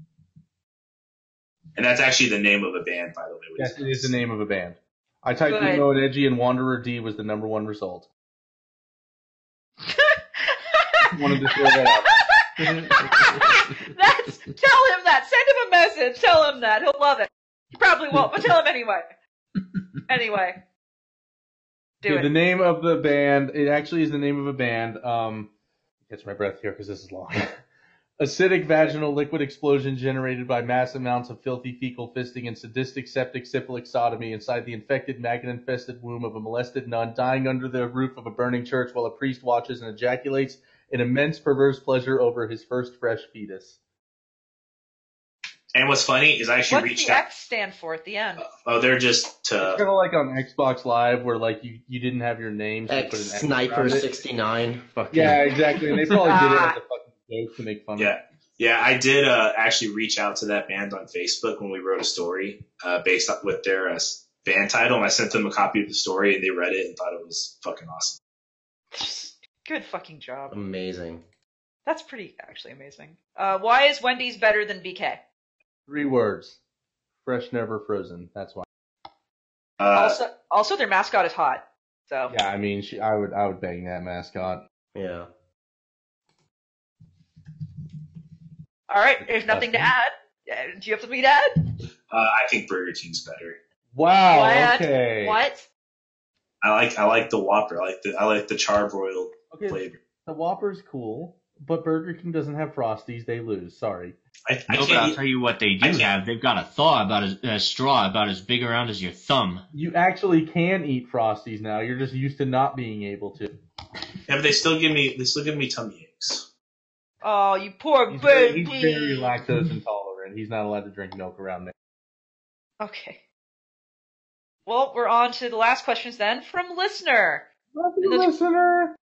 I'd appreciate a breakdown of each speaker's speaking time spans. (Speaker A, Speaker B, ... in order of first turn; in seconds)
Speaker A: 1.7-4.1, 45.7-47.2, 48.4-49.8, 58.0-68.2, 79.8-80.2, 92.1-93.6, 96.6-100.0, 104.5-105.2, 105.8-106.1, 114.3-116.4
Speaker B: 3.6-8.1, 11.1-12.1, 22.1-25.5, 26.1-27.5, 28.2-43.8, 49.6-54.0, 55.1-58.1, 75.9-76.6, 77.2-78.7, 82.3-84.6, 89.2-89.9, 93.9-95.4, 99.5-104.2, 109.7-113.5, 118.1-121.7, 127.7-128.9
Speaker C: 5.5-5.8, 9.8-19.1, 20.1-20.6, 22.0-22.3, 46.7-48.5, 56.0-56.8, 68.9-70.5, 71.8-75.2, 79.9-82.3, 88.9-91.5, 94.2-95.7, 117.2-119.3, 122.8-123.2, 124.7-127.4, 128.0-128.3
Speaker D: 12.6-13.7, 104.7-109.6
Speaker E: 52.9-55.5, 70.5-71.2, 84.9-85.3